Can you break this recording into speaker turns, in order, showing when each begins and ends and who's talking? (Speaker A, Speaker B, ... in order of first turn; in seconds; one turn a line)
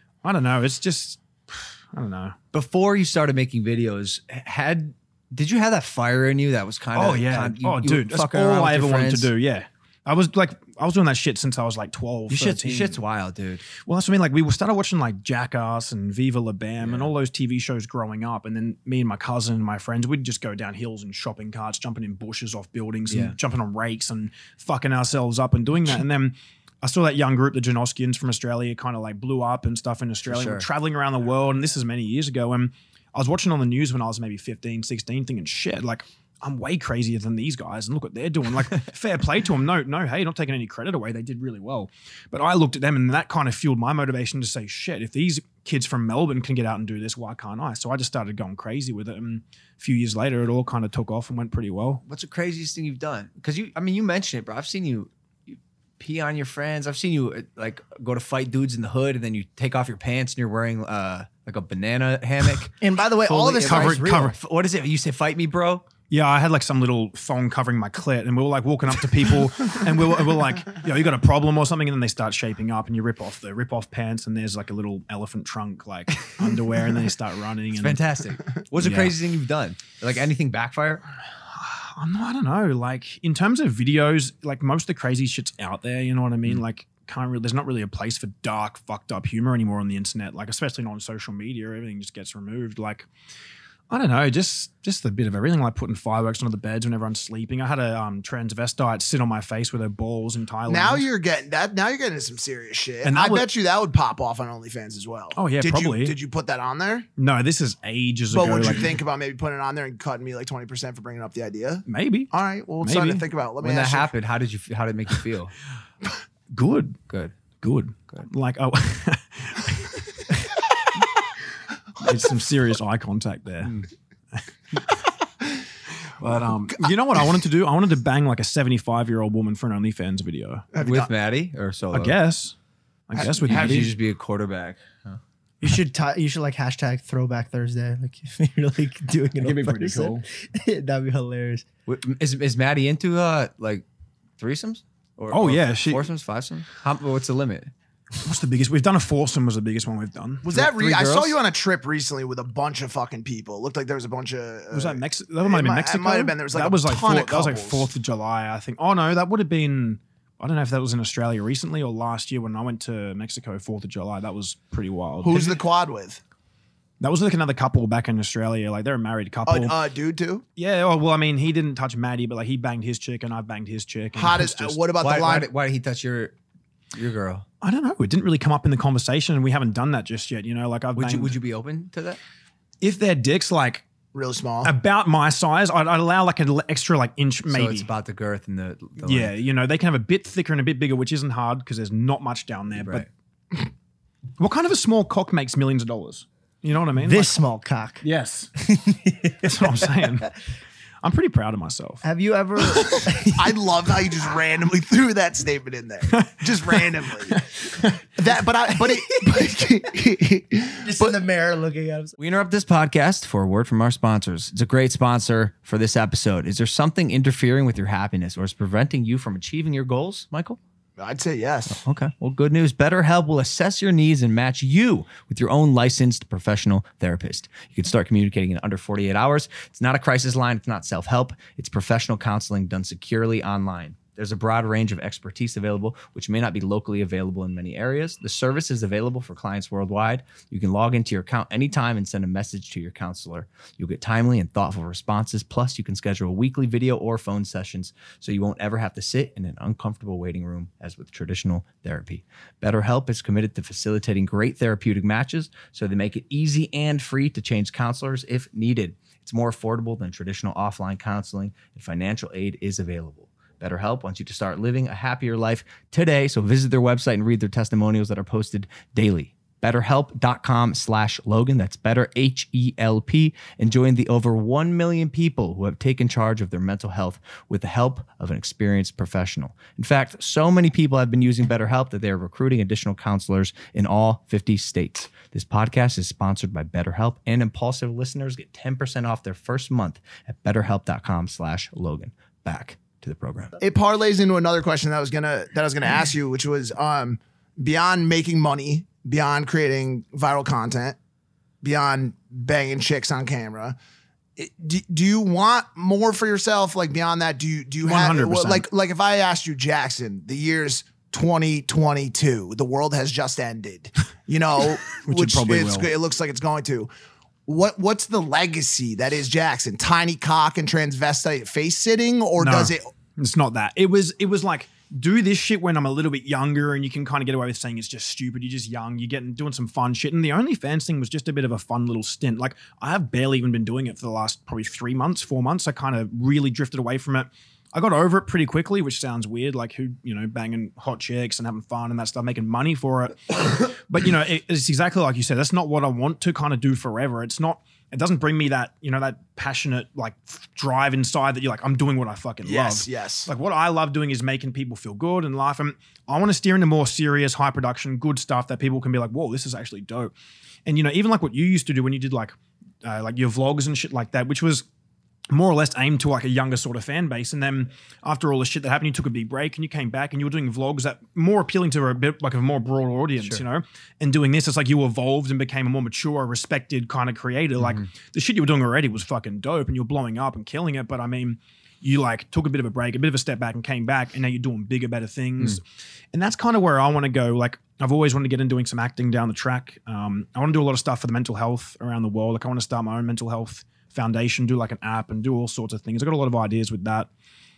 Speaker A: 0.2-2.4
Speaker B: 2.5-9.3
Speaker A: 7.0-13.0
Speaker B: 12.3-13.6
Speaker A: 13.8-52.0
Speaker B: 16.8-17.1
Speaker B: 23.1-23.4
Speaker B: 30.3-30.7
Speaker B: 52.1-65.9
Speaker C: 62.8-64.3
Speaker A: 63.6-64.3
Speaker A: 66.1-78.0
Speaker B: 77.8-81.1
Speaker A: 78.8-79.1
Speaker A: 81.5-93.1
Speaker A: 93.9-101.1
Speaker D: 100.7-107.1
Speaker A: 103.0-103.5
Speaker A: 105.3-106.2
Speaker A: 107.2-109.0
Speaker D: 108.3-114.1
Speaker A: 111.9-113.2
Speaker B: 113.6-115.5
Speaker A: 116.5-117.0
Speaker B: 117.1-117.4
Speaker A: 117.6-120.5
Speaker A: 122.0-123.8
Speaker B: 123.6-123.9
Speaker A: 126.2-130.7
Speaker D: 130.7-131.1
Speaker B: 130.8-132.2
Speaker A: 131.9-132.6
Speaker A: 133.1-133.9
Speaker D: 133.2-133.9
Speaker B: 133.2-135.2
Speaker C: 135.6-141.7
Speaker A: 139.4-140.2
Speaker B: 141.9-143.8
Speaker B: 144.4-147.7
Speaker A: 145.3-146.1
Speaker A: 148.2-150.4
Speaker D: 150.4-157.9
Speaker B: 150.5-151.4
Speaker A: 154.7-165.6
Speaker D: 165.2-166.2
Speaker A: 167.0-169.8
Speaker D: 169.5-170.4
Speaker A: 170.6-174.8
Speaker D: 174.2-175.5
Speaker B: 175.0-176.3
Speaker B: 176.9-177.5
Speaker A: 177.6-181.4
Speaker B: 180.9-182.2
Speaker A: 182.8-183.8
Speaker D: 184.1-184.7
Speaker A: 184.6-187.9
Speaker B: 187.5-189.3
Speaker A: 189.0-193.1
Speaker B: 192.8-193.1
Speaker A: 194.4-197.4
Speaker C: 197.0-198.0
Speaker A: 198.0-198.5
Speaker C: 198.6-199.9
Speaker A: 199.4-200.3
Speaker A: 201.0-202.0
Speaker C: 202.0-203.5
Speaker D: 203.3-207.4
Speaker A: 206.1-208.0
Speaker D: 208.2-211.2
Speaker C: 210.8-212.2
Speaker B: 212.2-220.6
Speaker D: 221.0-221.8
Speaker B: 221.7-293.6
Speaker D: 293.6-301.0
Speaker D: 301.6-303.8
Speaker D: 304.4-316.9
Speaker A: 307.8-308.7
Speaker A: 315.0-315.9
Speaker D: 317.5-322.9
Speaker A: 322.4-360.1
Speaker D: 352.4-353.3
Speaker A: 360.7-364.7
Speaker A: 365.3-385.6
Speaker B: 377.6-377.9
Speaker A: 386.1-397.1